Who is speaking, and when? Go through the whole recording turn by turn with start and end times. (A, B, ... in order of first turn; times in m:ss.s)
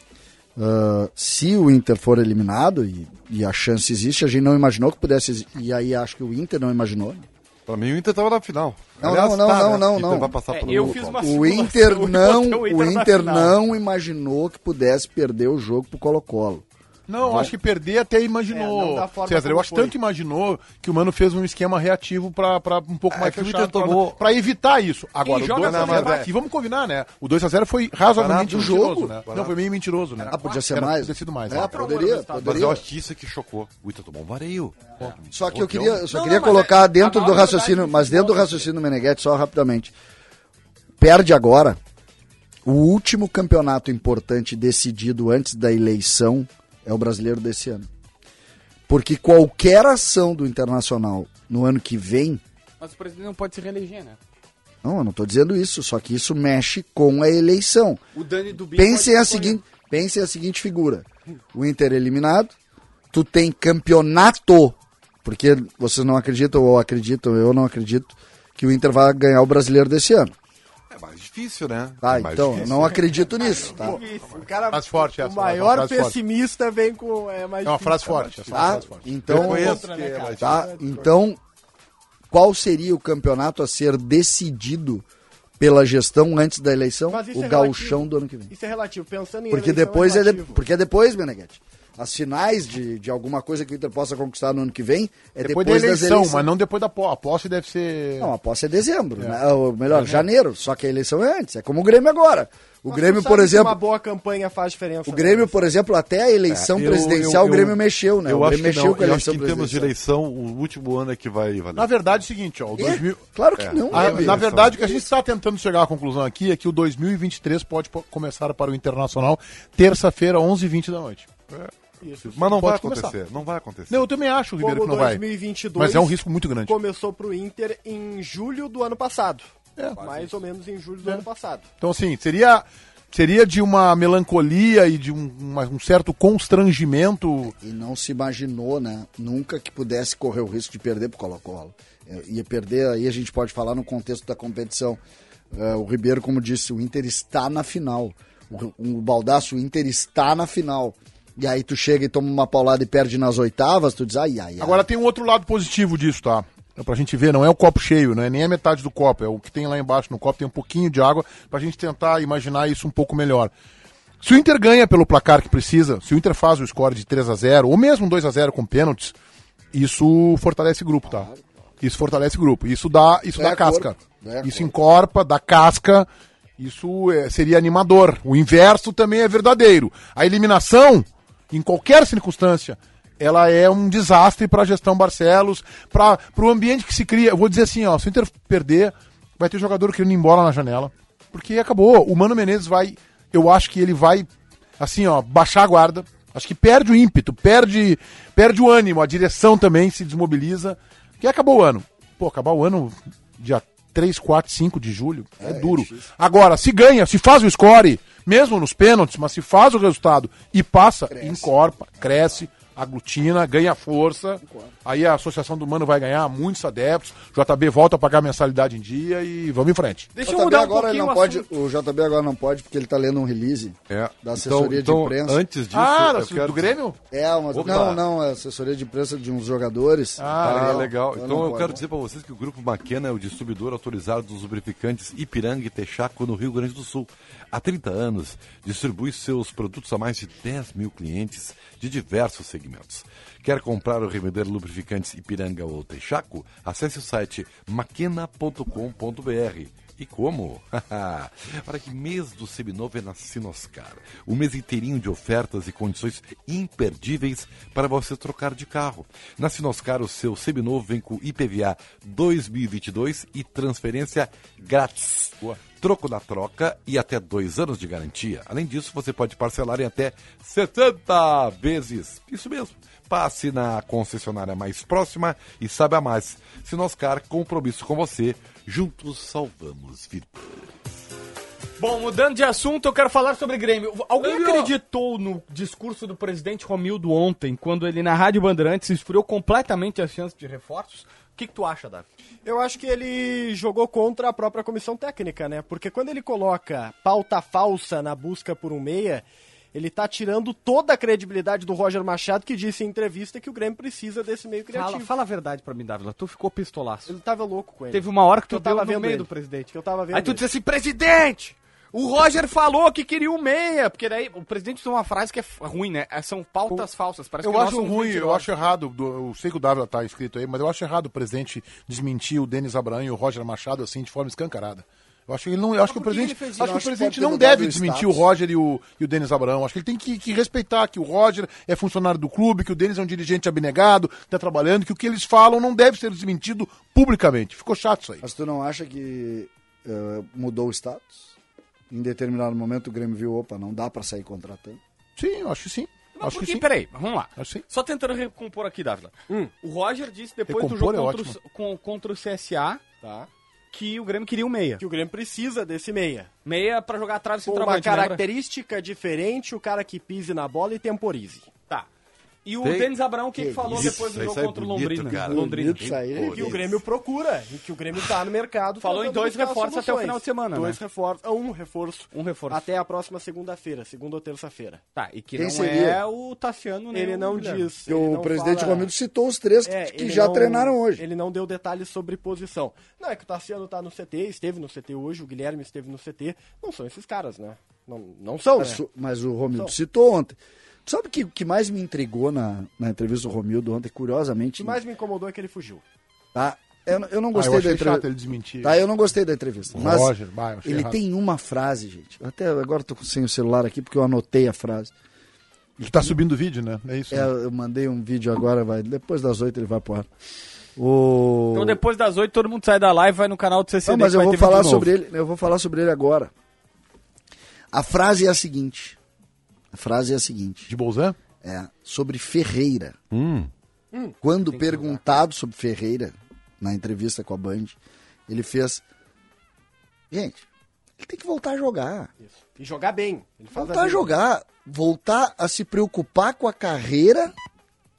0:00.6-0:07.3 A
0:07.7-0:11.2 B
0:09.0-0:16.6 A
0:10.5-0:13.6 C
0:17.1-0:31.7 D
0:17.3-0:17.5 A
0:18.5-0:20.0 E
0:23.1-0:24.2 B
0:25.2-0:26.3 C
0:25.5-0:26.3 B
0:28.2-0:29.6 B
0:28.4-0:29.2 A
0:30.2-0:30.6 C
0:30.3-0:32.8 A
0:31.5-0:32.8 C
0:32.4-0:36.0 B
0:35.3-0:39.9 A
0:36.1-0:38.7 C
0:41.0-0:41.8 A
0:42.6-0:47.9 A
0:48.9-0:52.4 A
0:52.8-0:54.2 C
0:54.8-0:58.0 A
0:58.2-0:59.6 C
0:58.7-1:02.6 A
1:03.1-1:10.3 A
1:10.9-1:13.7 B
1:12.0-1:14.0 A
1:13.4-1:14.4 C
1:13.4-1:18.5 E
1:14.7-1:16.2 D
1:17.6-1:19.8 D
1:18.5-1:21.4 A
1:19.3-1:21.1 B
1:19.9-1:20.4 E
1:22.3-1:25.0 A
1:25.6-1:28.5 A
1:27.1-1:30.6 E
1:29.5-1:36.5 A
1:35.4-1:38.3 D
1:38.2-1:43.8 A
1:39.9-1:40.2 D
1:42.9-1:45.7 E
1:45.1-1:49.9 A
1:46.5-1:51.9 B
1:51.8-1:53.2 D
1:52.8-1:55.0 A
1:53.6-1:54.8 B
1:53.9-2:01.3 D
2:02.0-2:02.5 E
2:02.3-2:04.0 B
2:02.4-2:03.2 D
2:03.9-2:05.2 D
2:04.6-2:11.7 E
2:05.8-2:06.8 D
2:10.0-2:10.4 C
2:11.8-2:17.5 D
2:17.5-2:25.0 A
2:25.5-2:34.9 A
2:34.6-2:43.5 D
2:44.2-2:49.2 D
2:49.7-2:51.3 D
2:51.1-2:51.4 A
2:51.8-2:56.1 D
2:53.4-2:54.7 A
2:56.6-3:14.3 D
3:14.8-3:40.1 D
3:25.4-3:26.1 A
3:31.1-3:31.5 A
3:34.4-3:34.7 A
3:40.2-3:41.5 C
3:40.2-3:45.4 A
3:43.9-3:46.8 B
3:45.7-3:47.0 D
3:47.1-3:51.8 A
3:47.5-3:48.0 B
3:50.2-3:50.9 D
3:50.4-4:40.6 B
4:41.8-4:52.1 C
4:44.2-4:44.7 B
4:52.4-5:05.1 E
5:04.7-5:07.2 C
5:07.1-5:10.4 E
5:07.9-5:18.5 C
5:17.4-5:38.2 D
5:25.9-5:26.6 C
5:26.6-5:28.3 A
5:38.2-5:41.4 A
5:41.9-5:44.8 A
5:45.2-5:46.7 D
5:46.2-5:52.8 C
5:47.4-5:47.6 D
5:50.5-5:51.4 D
5:53.0-5:53.3 E
5:53.7-5:54.8 C
5:54.8-5:56.3 E
5:56.4-5:58.2 C
5:57.5-6:01.5 E
6:02.4-6:06.0 C
6:02.6-6:02.9 B
6:03.4-6:04.0 A
6:03.7-6:06.8 B
6:05.3-6:06.6 A
6:06.3-6:14.8 E
6:08.8-6:10.8 C
6:12.1-6:12.7 C
6:15.0-6:17.7 C
6:15.4-6:16.0 A
6:16.9-6:18.9 E
6:17.9-6:21.0 A
6:19.6-6:28.8 E
6:28.6-6:34.8 A
6:34.6-6:35.8 E
6:36.3-6:38.1 A
6:37.3-6:38.8 D
6:38.6-6:44.9 A
6:39.8-6:41.0 D
6:45.8-6:47.3 D
6:45.9-6:46.2 A
6:47.1-6:50.1 A
6:50.8-6:51.8 A
6:51.5-6:54.9 C
6:53.8-6:56.3 A
6:57.7-6:59.0 A
6:59.7-7:00.7 A
7:00.7-7:01.2 D
7:01.4-7:03.0 A
7:03.1-7:03.5 B
7:04.2-7:07.8 A
7:04.5-7:05.2 C
7:08.3-7:08.8 A
7:10.1-7:10.4 A
7:11.0-7:12.1 A
7:12.2-7:14.2 E
7:13.5-7:17.3 A